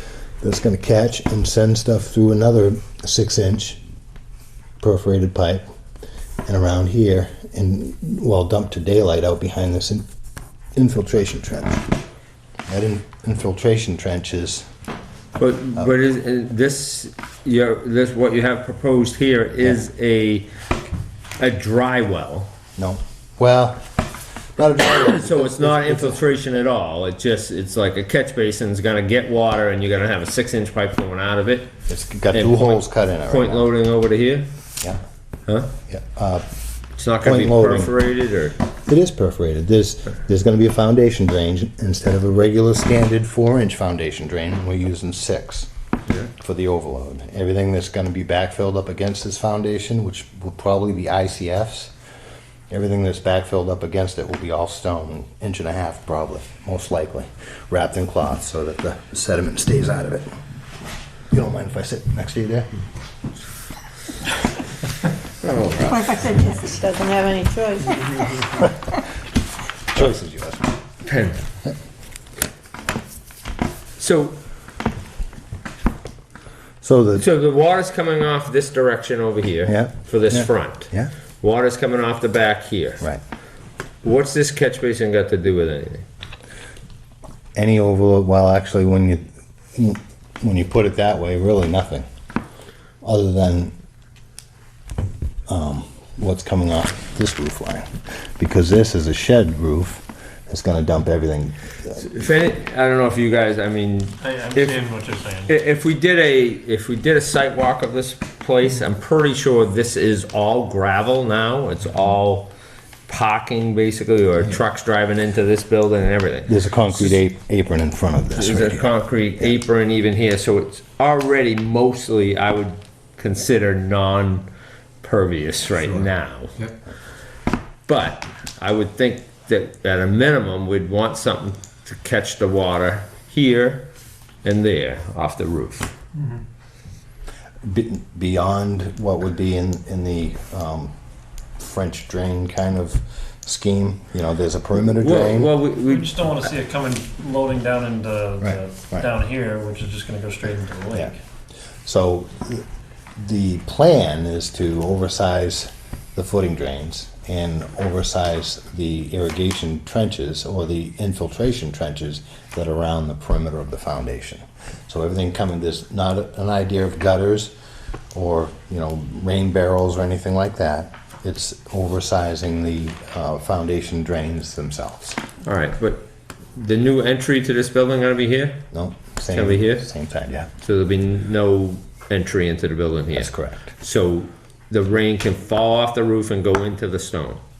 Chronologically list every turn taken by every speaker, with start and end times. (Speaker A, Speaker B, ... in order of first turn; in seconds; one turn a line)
Speaker A: 0.4-3.8
Speaker A: 4.8-5.6
Speaker A: 6.4-10.0
Speaker A: 10.7-11.8
Speaker A: 12.7-14.6
Speaker B: 15.4-20.5
Speaker B: 21.4-22.5
Speaker A: 22.8-23.8
Speaker A: 24.6-26.2
Speaker B: 25.0-31.7
Speaker A: 31.9-33.7
Speaker B: 32.3-34.5
Speaker A: 35.9-36.5
Speaker B: 37.0-38.6
Speaker A: 37.2-37.9
Speaker A: 38.9-45.7
Speaker A: 46.3-51.9
Speaker A: 52.7-60.3
Speaker A: 61.3-62.7
Speaker B: 65.4-66.3
Speaker C: 65.8-68.2
Speaker A: 69.9-70.7
Speaker B: 71.0-71.4
Speaker B: 74.0-74.4
Speaker A: 76.8-77.2
Speaker B: 77.2-83.0
Speaker A: 79.7-81.1
Speaker B: 84.0-86.0
Speaker A: 87.5-92.0
Speaker A: 93.0-93.7
Speaker A: 95.5-97.9
Speaker A: 98.4-102.0
Speaker B: 101.9-104.8
Speaker D: 104.2-105.5
Speaker B: 105.5-112.5
Speaker B: 113.1-117.2
Speaker A: 116.5-119.5
Speaker B: 118.3-124.5
Speaker B: 125.0-126.6
Speaker B: 127.9-133.9
Speaker B: 134.4-135.9
Speaker D: 136.2-136.4
Speaker A: 137.6-140.9
Speaker A: 141.6-145.5
Speaker B: 144.8-146.1
Speaker D: 145.8-151.2
Speaker A: 148.4-149.1
Speaker A: 151.8-152.6
Speaker A: 153.2-167.5
Speaker A: 168.1-175.2
Speaker B: 175.4-178.7
Speaker A: 178.7-180.5
Speaker B: 179.3-179.9
Speaker B: 180.6-187.4
Speaker A: 183.1-183.7